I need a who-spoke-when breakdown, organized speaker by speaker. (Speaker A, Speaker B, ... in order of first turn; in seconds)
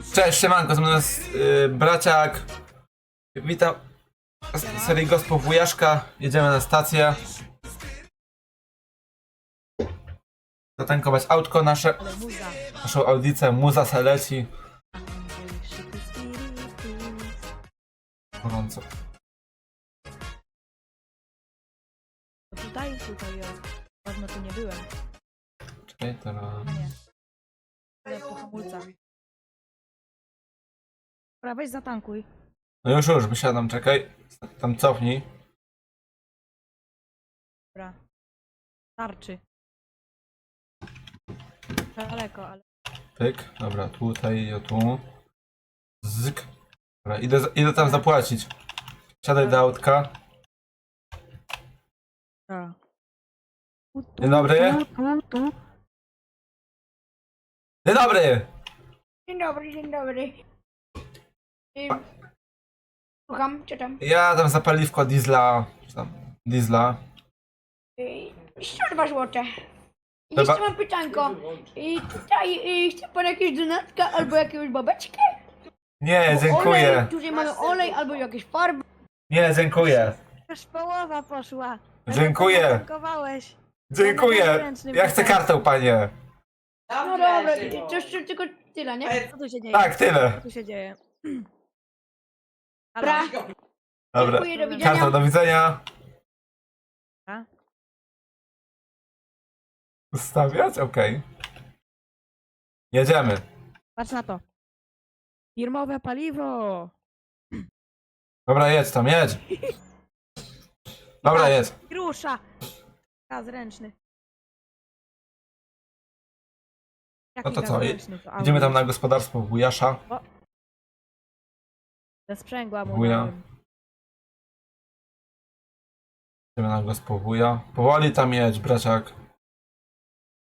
Speaker A: 0.1-2.5, 3.3-3.8, 4.5-7.2, 10.8-12.0, 12.7-14.5, 18.4-18.8, 25.9-26.8, 32.8-35.2, 43.2-45.0, 46.0-46.5, 47.0-48.5, 49.2-50.1, 54.2-54.8, 57.8-58.5, 64.0-67.0, 70.3-70.6, 76.0-77.1, 79.3-80.2, 82.0-82.8, 83.9-86.1, 89.7-90.4, 94.1-95.8, 100.1-101.2, 102.9-103.4, 108.5-109.4, 111.2-111.7, 117.4-120.0, 122.8-123.3, 126.5-129.1
Speaker B: 4.6-5.0, 12.0-12.6, 14.9-17.4, 22.5-24.9, 26.6-26.9, 28.0-29.0, 31.4-32.2, 39.0-39.4, 41.9-42.6, 47.7-48.0, 52.5-52.8, 53.9-55.5, 80.5-85.4, 89.2-91.5, 93.0-93.3, 94.5-95.1, 104.0-104.4, 105.5-106.9, 111.2-112.4, 113.3-113.9, 117.3-118.8, 122.3-123.4
Speaker C: 59.3-60.4, 61.7-62.0, 63.3-64.0, 68.0-69.5, 70.3-75.4, 76.3-78.8, 86.9-89.3, 93.0-93.4, 94.1-95.2